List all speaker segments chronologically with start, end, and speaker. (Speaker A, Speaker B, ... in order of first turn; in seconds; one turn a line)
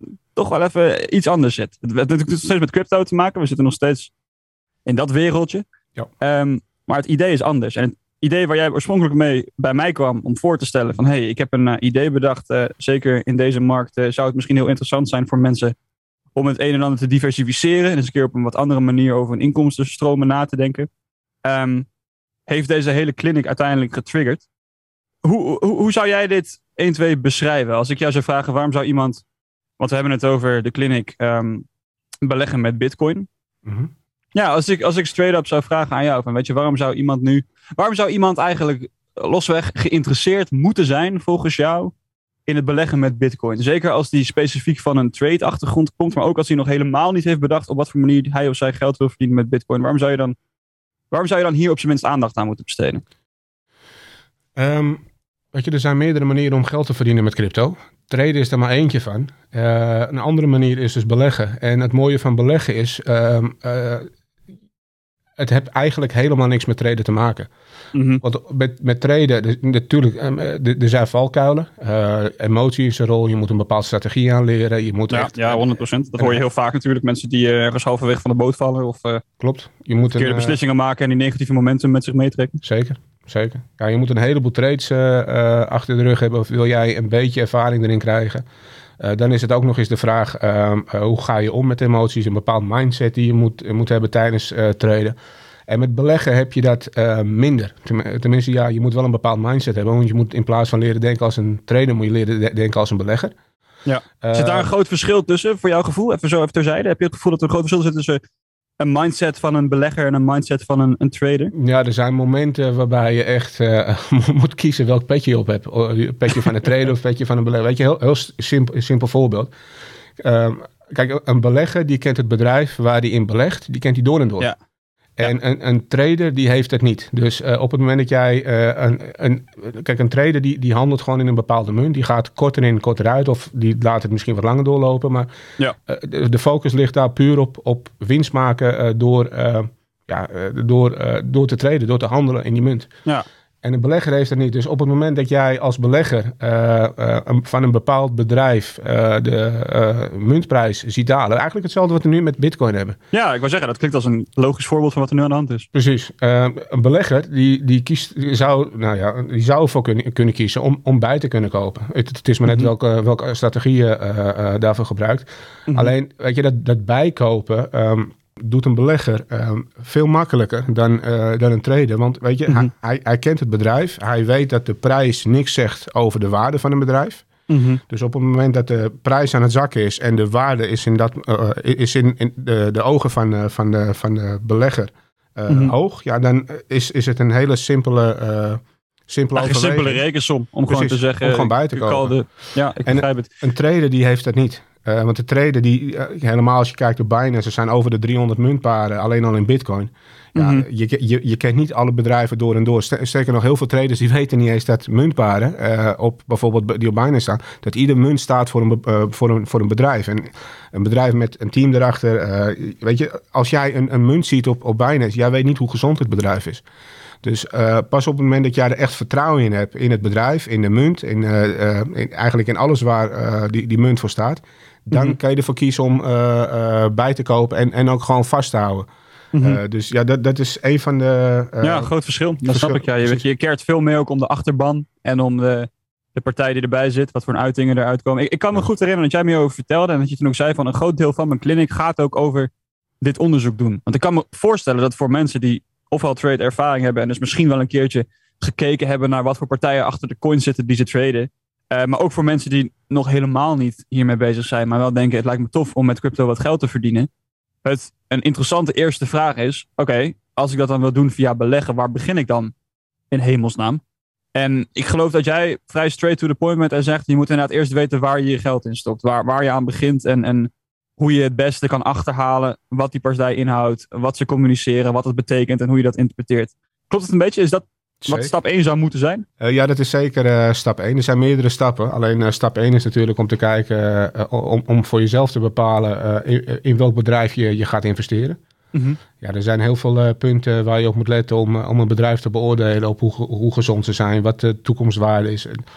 Speaker A: 0.3-4.1
Speaker A: 4.9-5.7
Speaker A: 6.2-15.7
Speaker A: 16.4-20.9
Speaker A: 21.4-21.9
Speaker A: 22.5-24.4
Speaker A: 25.2-29.2
Speaker A: 29.8-31.7
Speaker A: 32.2-33.3
Speaker B: 33.6-33.9
Speaker A: 34.4-41.9
Speaker A: 42.5-50.4
Speaker A: 51.1-53.0
Speaker B: 54.6-64.1
Speaker B: 65.4-67.5
Speaker A: 67.9-68.2
Speaker B: 68.2-75.6
Speaker A: 75.1-79.2
Speaker B: 76.2-76.4
Speaker B: 79.4-80.6
Speaker A: 80.1-82.6
Speaker B: 82.6-88.5
Speaker B: 89.0-95.2
Speaker B: 95.7-103.3
Speaker A: 103.9-108.2
Speaker B: 104.2-104.7
Speaker A: 108.8-111.5
Speaker B: 111.5-119.5
Speaker B: 120.2-124.5
Speaker B: 125.2-135.3
Speaker B: 135.9-142.9
Speaker B: 143.6-153.0
Speaker A: 153.1-155.7
Speaker B: 155.7-177.3
Speaker A: 165.7-165.9
Speaker A: 177.5-177.8
Speaker B: 177.9-190.0
Speaker A: 185.5-185.7
Speaker A: 189.3-193.3
Speaker B: 190.7-192.2
Speaker B: 192.8-216.6
Speaker A: 200.4-200.7
Speaker B: 217.2-231.9
Speaker A: 224.9-225.2
Speaker A: 229.3-229.6
Speaker A: 231.6-242.5
Speaker B: 232.4-233.2
Speaker A: 243.0-257.1
Speaker A: 257.6-262.5
Speaker A: 263.1-263.8
Speaker A: 264.4-279.2
Speaker B: 278.0-278.3
Speaker B: 279.4-288.4
Speaker A: 288.7-289.0
Speaker B: 289.2-295.6